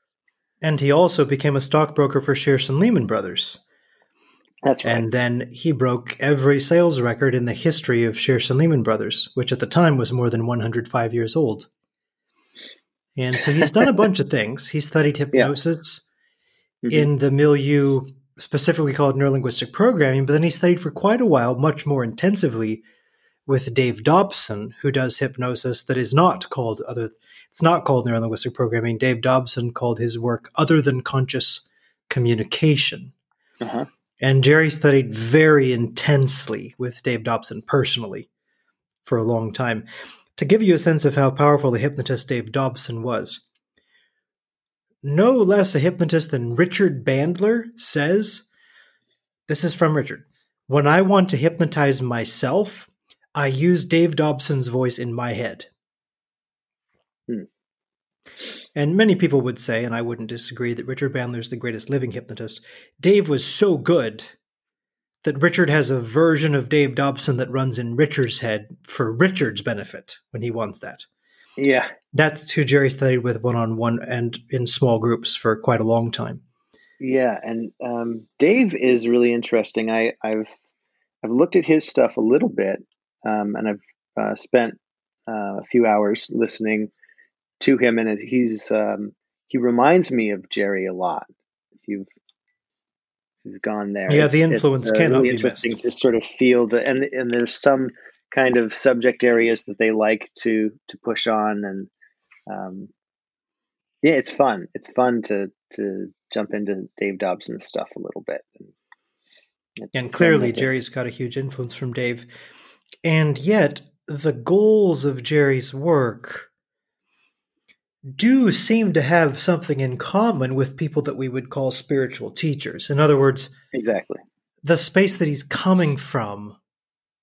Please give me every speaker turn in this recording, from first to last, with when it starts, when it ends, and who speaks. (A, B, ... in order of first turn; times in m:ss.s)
0:00.6-0:03.6 A
0:04.6-0:05.1 B
0:04.8-0:11.7 A
0:13.2-0:16.0 A
0:16.8-0:17.1 B
0:16.9-0:22.8 A
0:23.5-0:33.1 A
0:33.6-0:33.9 B
0:34.2-0:38.3 A
0:39.0-0:43.4 A
0:45.0-0:48.5 A
0:49.5-0:55.7 A
0:58.8-1:04.4 A
1:05.2-1:11.1 A
1:11.6-1:11.9 B
1:12.1-1:16.4 A
1:17.0-1:20.6 B
1:21.2-1:24.8 B
1:25.3-1:26.9 B
1:27.6-1:31.3 B
1:31.8-1:32.1 B
1:33.4-1:41.9 B
1:34.1-1:35.8 A
1:42.5-1:42.9 B
1:44.0-1:48.7 B
1:49.8-1:50.7 B
1:49.9-1:52.3 A
1:53.0-1:56.5 A
1:58.2-2:03.5 A
2:03.7-2:04.2 B
2:04.6-2:06.6 A